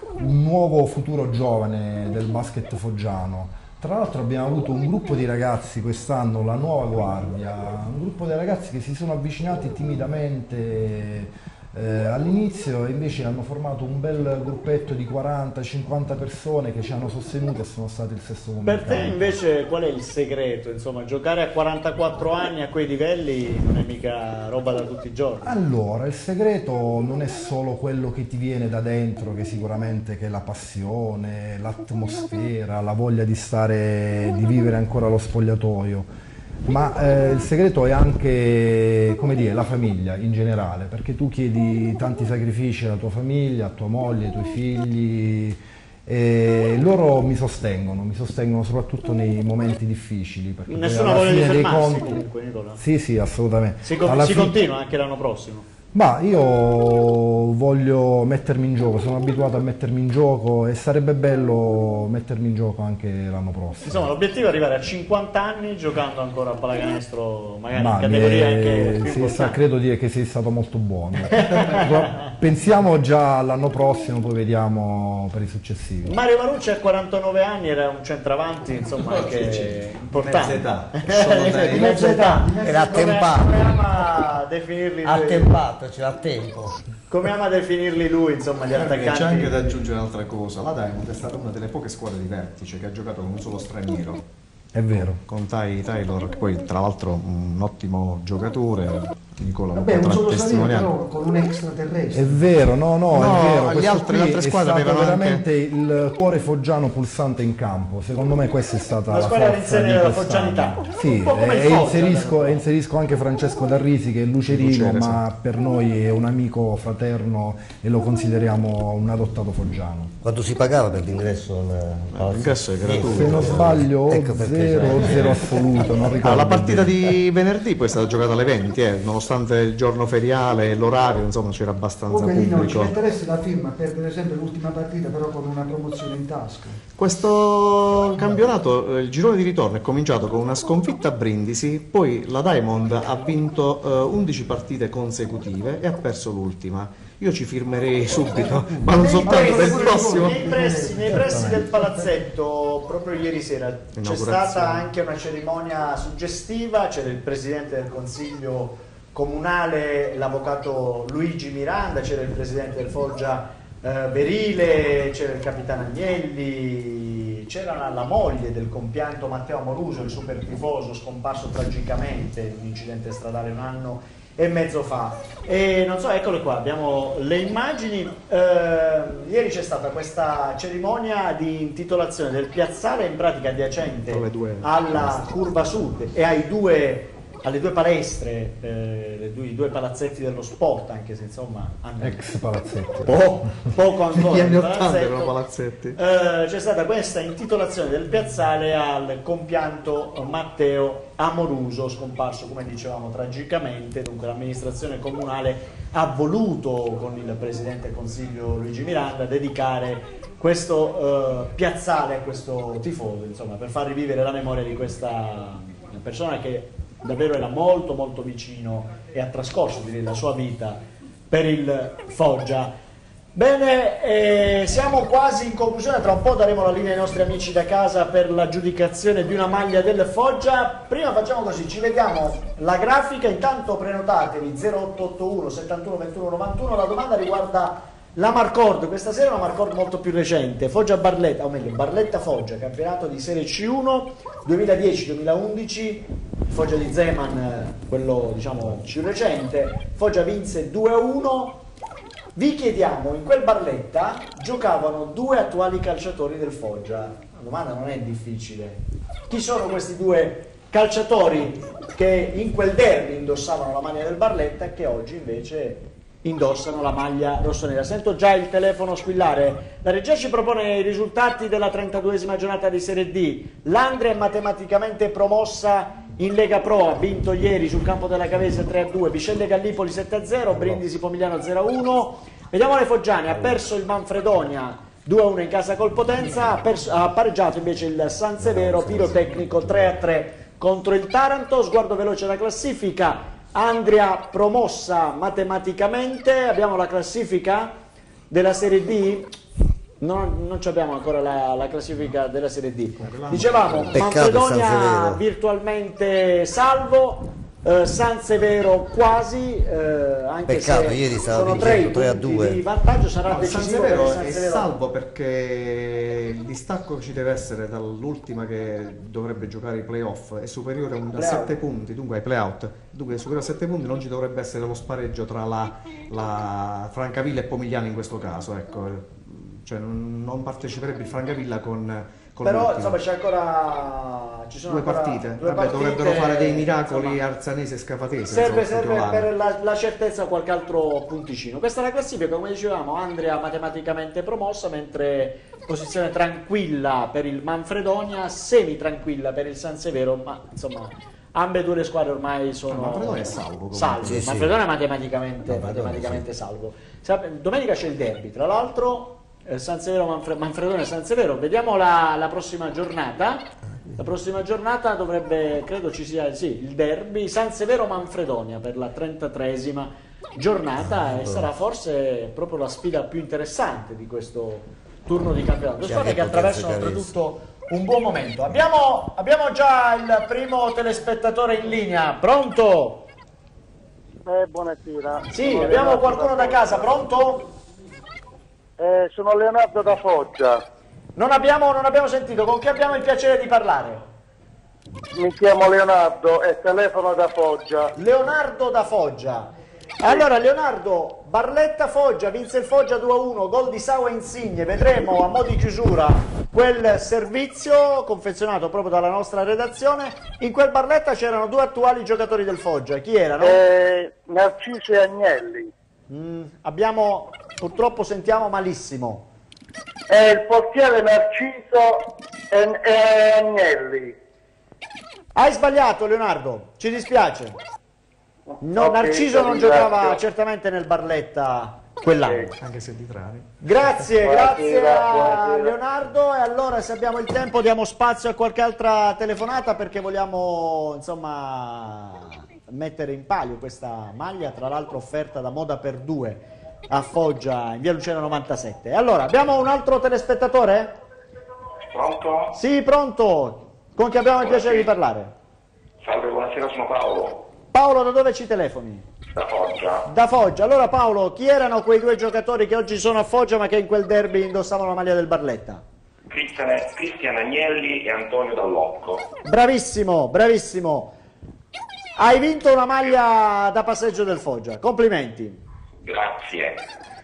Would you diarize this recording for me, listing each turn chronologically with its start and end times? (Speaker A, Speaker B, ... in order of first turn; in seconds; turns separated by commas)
Speaker A: 0.2-19.3, Speaker B: 18.6-25.5, Speaker A: 25.4-36.1, Speaker A: 36.6-52.2, Speaker B: 50.7-52.8, Speaker A: 52.8-54.6, Speaker B: 53.8-55.7, Speaker A: 55.9-64.1, Speaker B: 63.8-69.6, Speaker A: 67.7-76.1, Speaker B: 71.3-72.2, Speaker B: 76.1-85.5, Speaker C: 79.0-81.9, Speaker D: 81.7-83.1, Speaker E: 81.8-84.1, Speaker E: 85.0-86.8, Speaker B: 87.1-89.8, Speaker C: 88.7-94.2, Speaker A: 94.7-95.2, Speaker C: 94.9-100.9, Speaker D: 99.7-102.5, Speaker A: 102.1-120.1, Speaker C: 103.1-105.4, Speaker B: 109.1-112.6, Speaker C: 114.4-115.2, Speaker E: 120.2-125.6, Speaker C: 122.1-123.8, Speaker A: 123.0-127.0, Speaker C: 125.0-125.3, Speaker C: 126.2-133.0, Speaker D: 132.1-136.8, Speaker C: 136.9-150.4, Speaker D: 148.3-151.9, Speaker B: 149.2-192.2, Speaker A: 151.3-151.7, Speaker C: 153.9-154.9, Speaker C: 184.1-185.3, Speaker A: 192.0-193.7, Speaker B: 193.0-195.3, Speaker C: 194.1-196.0, Speaker B: 195.9-222.7, Speaker B: 223.3-251.6, Speaker B: 252.3-297.8, Speaker E: 288.4-289.9, Speaker B: 298.3-299.3, Speaker B: 300.0-314.7, Speaker C: 303.0-304.1, Speaker E: 303.9-305.2, Speaker E: 310.4-312.6, Speaker C: 313.3-333.0, Speaker B: 321.1-321.6, Speaker B: 332.4-337.2, Speaker C: 334.7-339.3, Speaker B: 338.3-383.1, Speaker C: 352.7-354.3, Speaker E: 354.0-354.5, Speaker E: 355.5-356.2, Speaker E: 370.8-371.5, Speaker E: 375.8-377.1, Speaker F: 384.2-387.1, Speaker B: 385.3-387.4, Speaker F: 388.8-390.6, Speaker B: 391.1-394.0, Speaker F: 395.1-397.9, Speaker B: 397.9-413.6, Speaker F: 413.4-415.7, Speaker B: 416.1-419.2, Speaker F: 420.1-424.1, Speaker B: 425.3-427.6, Speaker F: 428.5-430.2, Speaker B: 428.6-432.5, Speaker C: 432.6-433.5, Speaker B: 433.6-451.0, Speaker F: 434.1-435.7, Speaker G: 451.9-452.5, Speaker B: 452.5-455.3, Speaker G: 454.4-454.9, Speaker G: 456.0-457.4, Speaker B: 457.7-459.1, Speaker G: 459.4-460.1, Speaker B: 460.1-465.8, Speaker G: 466.3-469.2, Speaker B: 469.4-471.1, Speaker B: 472.1-475.6, Speaker G: 476.0-476.8